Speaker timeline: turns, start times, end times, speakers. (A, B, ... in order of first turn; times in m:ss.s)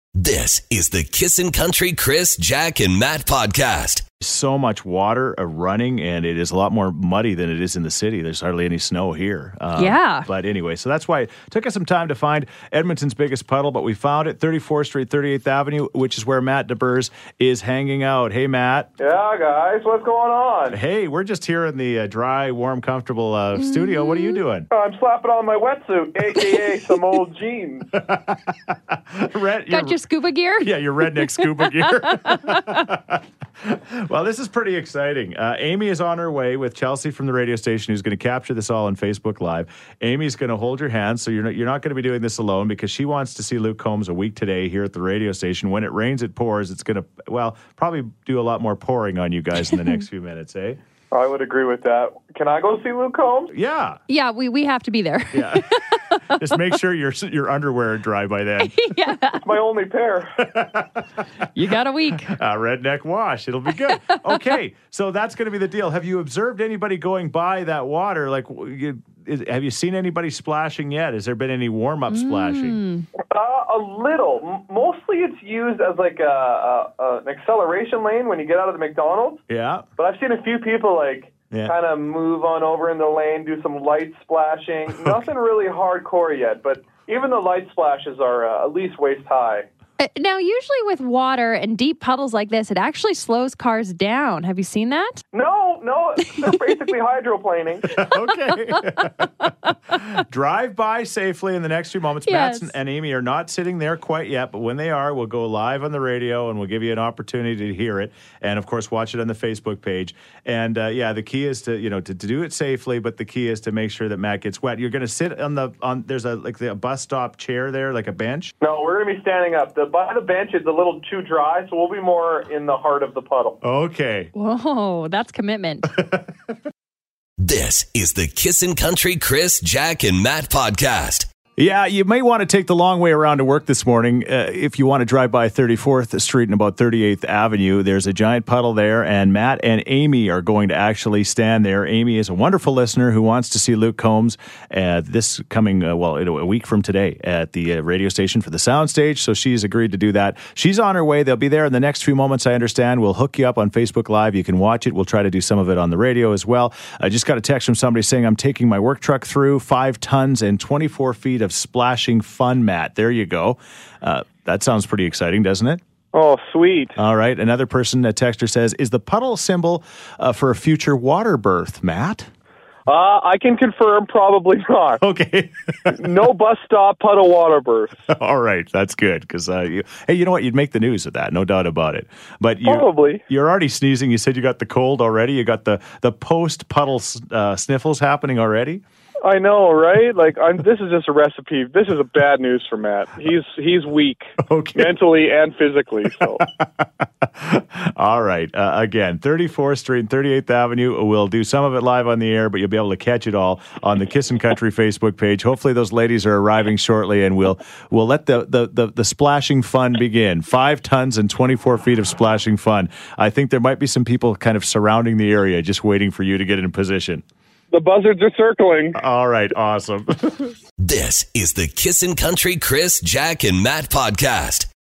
0:00.2-0:04.0 A
0:04.2-0:18.9 B
0:09.8-0:10.3 C
0:19.0-0:20.8 D
0:20.7-0:24.7 B
0:23.6-0:24.4 C
0:24.7-0:27.9 D
0:27.9-0:30.0 B
0:29.7-0:32.7 C
0:30.6-0:50.8 B
0:51.1-0:53.5 D
0:53.5-0:54.0 B
0:54.1-0:56.6 C
0:55.3-0:59.0 B
0:58.6-0:59.4 C
0:59.4-1:00.3 D
1:00.4-1:01.0 B
1:01.5-1:02.3 C
1:02.2-1:12.8 B
1:03.9-1:04.4 C
1:12.1-1:13.1 C
1:13.3-1:19.4 D
1:19.5-1:19.9 B
1:20.0-1:29.7 D
1:21.5-1:21.8 B
1:30.0-1:35.2 C
1:35.3-1:37.9 D
1:37.9-1:39.3 B
1:38.5-1:38.7 C
1:39.9-1:58.5 B
1:42.2-1:42.7 C
1:58.6-2:03.6 D
2:03.6-2:04.3 B
2:04.3-2:05.9 C
2:06.0-2:06.3 B
2:07.4-2:11.3 A
2:11.6-2:45.8 B
2:46.1-2:47.0 D
2:47.0-2:52.3 B
2:52.9-2:55.0 D
2:55.0-2:56.0 B
2:55.9-2:57.9 D
2:58.1-3:08.8 B
3:02.6-3:03.2 D
3:09.2-3:16.4 D
3:14.4-3:14.9 B
3:16.4-3:37.2 B
3:37.7-3:39.0 D
3:38.9-3:40.5 B
3:40.8-3:44.7 A